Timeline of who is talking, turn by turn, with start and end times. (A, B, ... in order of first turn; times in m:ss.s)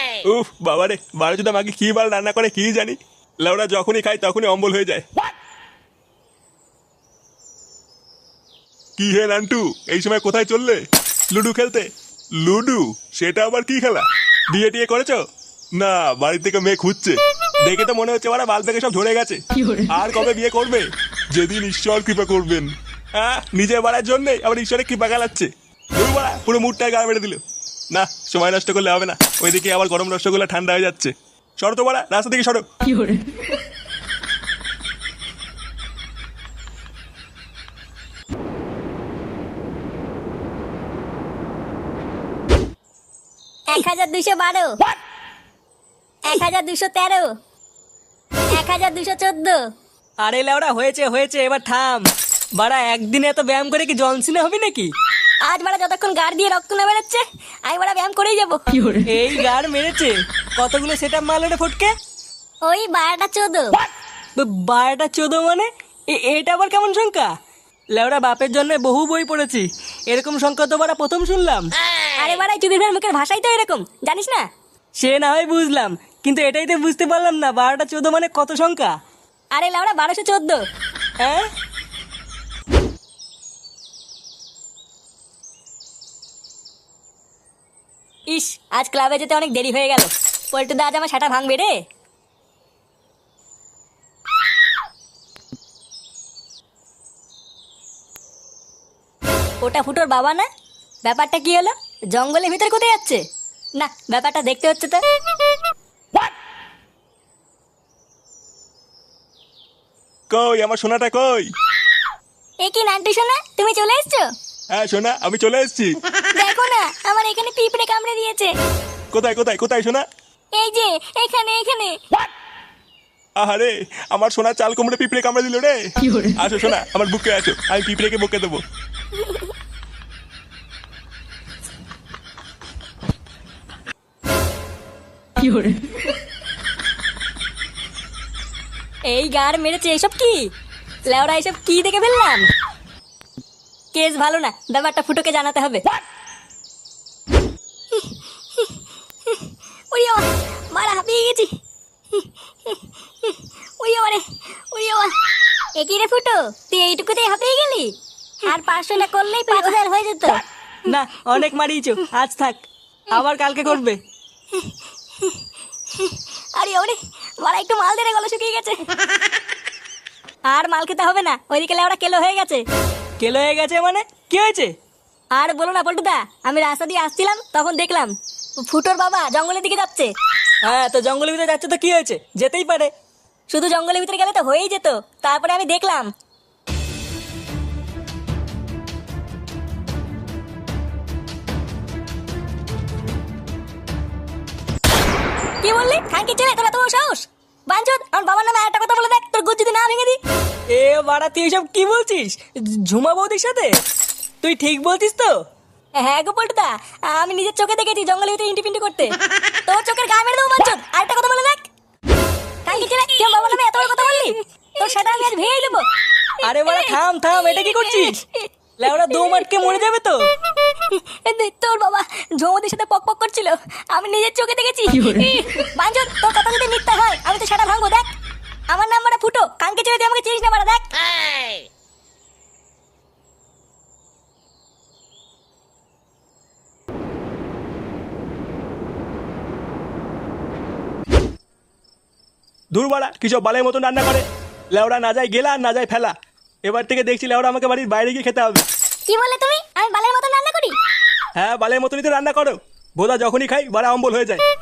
0:00.2-0:05.0 A
0:09.0-0:11.9 A
0:12.4-0:15.2 A
0:15.7-0:32.6 A
0:43.7-0:44.8 B
0:46.2-0:47.3 B
0:48.5-0:49.6 B
0:50.2-0:52.0 C
0:52.6-0:54.9 C
0:55.4-0:58.6 B
0:59.0-1:01.9 C
1:02.6-1:03.8 B
1:04.4-1:07.3 C
1:07.9-1:11.7 C
1:12.2-1:14.4 B
1:15.0-1:18.9 C
1:19.5-1:20.6 B
1:21.2-1:21.5 C
1:28.3-1:31.8 B
1:39.6-1:40.5 B
1:41.0-1:43.2 B
1:43.8-1:45.0 B
1:50.3-1:51.5 A
1:52.6-1:54.3 B
1:54.7-1:55.9 A
1:56.3-1:58.5 B
1:59.1-2:00.0 A
2:00.5-2:02.0 B
2:03.4-2:08.6 A
2:19.1-2:20.5 B
2:21.0-2:22.5 B
2:23.9-2:25.8 B
2:27.9-2:28.7 B
2:29.2-2:31.5 B
2:32.1-2:35.1 B
2:35.7-2:37.9 B
2:38.4-2:40.4 B
2:40.8-2:44.0 C
2:44.5-2:45.4 B
2:45.9-2:48.8 B
2:50.5-2:52.6 B
2:53.2-2:54.7 C
2:55.3-3:00.1 B
3:00.6-3:02.9 C
3:03.5-3:06.1 B
3:15.6-3:20.2 B
3:20.7-3:23.8 C
3:24.4-3:25.4 C
3:26.0-3:31.7 B
3:32.6-3:35.9 B
3:36.4-3:38.2 C
3:36.4-3:38.5 B
3:38.8-3:40.3 C
3:40.7-3:48.1 B
3:48.7-3:50.9 B
4:02.7-4:06.1 A
4:06.6-4:08.6 A
4:09.1-4:10.8 B
4:11.4-4:14.4 A